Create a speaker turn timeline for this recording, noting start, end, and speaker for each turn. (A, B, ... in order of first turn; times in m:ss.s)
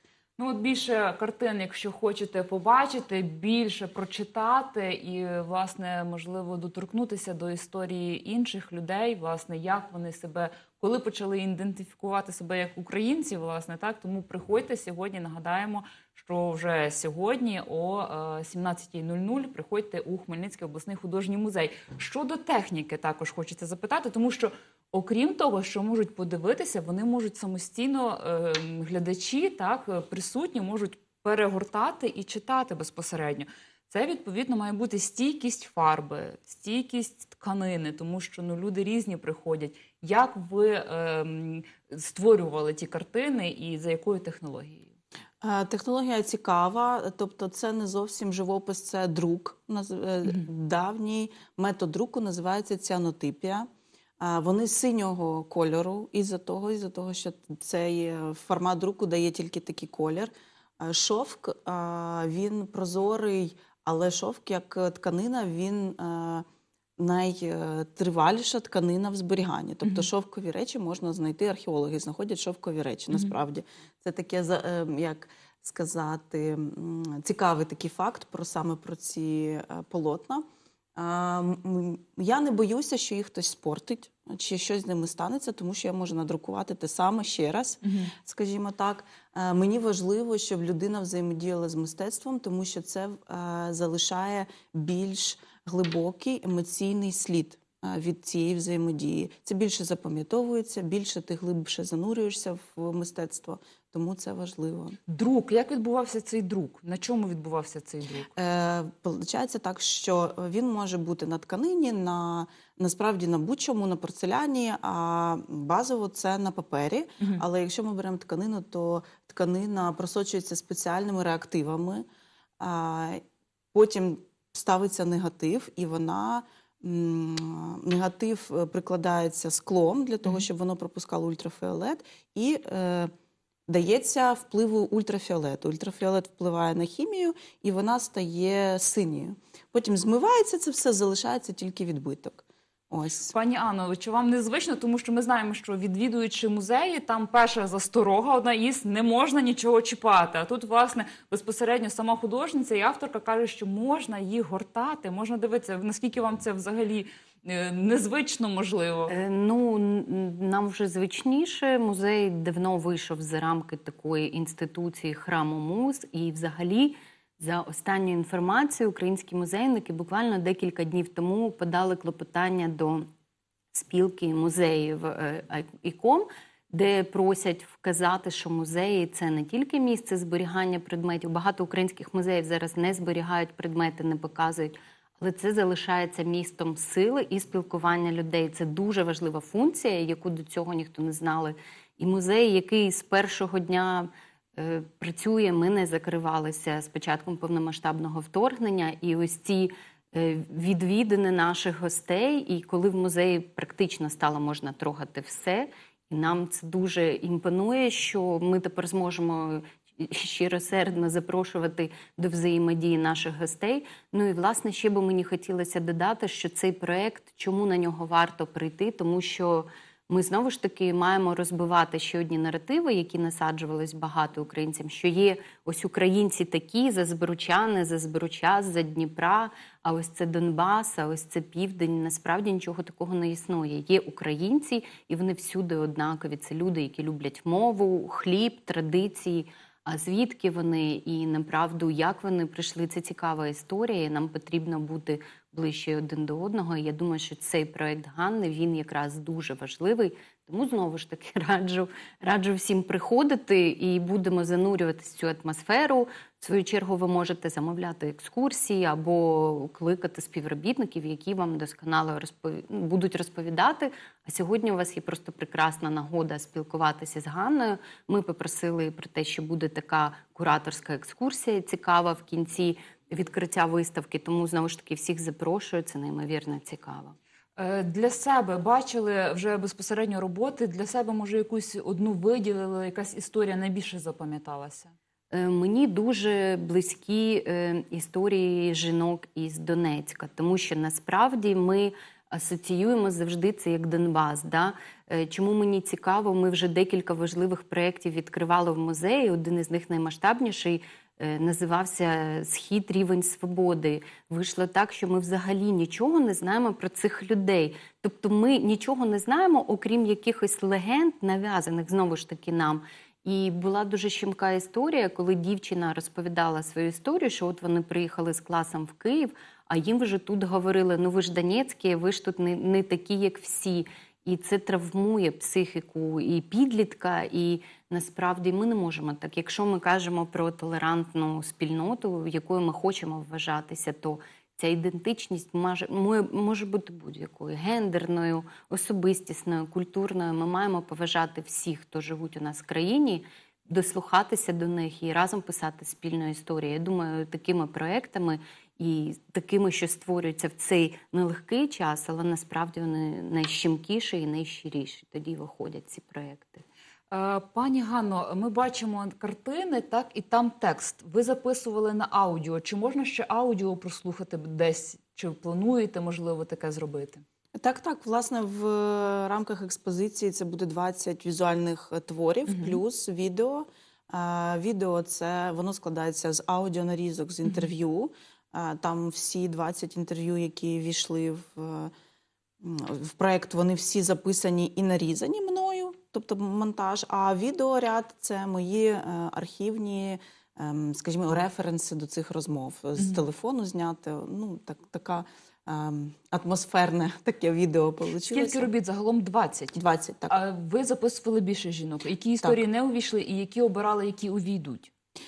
0:00.4-0:44.9 A
0:45.4-0:53.7 B
0:54.2-1:06.4 B
1:07.0-1:20.4 B
1:09.8-1:10.1 A
1:21.0-1:45.0 B
1:27.8-1:28.1 A
1:45.1-1:48.3 A
1:48.3-2:02.0 B
2:02.6-2:03.2 B
2:03.7-2:13.1 B
2:13.7-2:23.3 B
2:23.3-2:39.1 A
2:39.1-2:53.1 C
2:53.7-4:37.2 C
4:37.6-4:44.9 A
4:45.3-5:56.6 C
5:57.1-6:07.2 A
6:07.6-6:21.9 B
6:12.4-6:12.8 A
6:22.6-6:38.7 B
6:33.0-6:33.2 A
6:38.3-6:44.9 A
6:39.7-6:40.4 B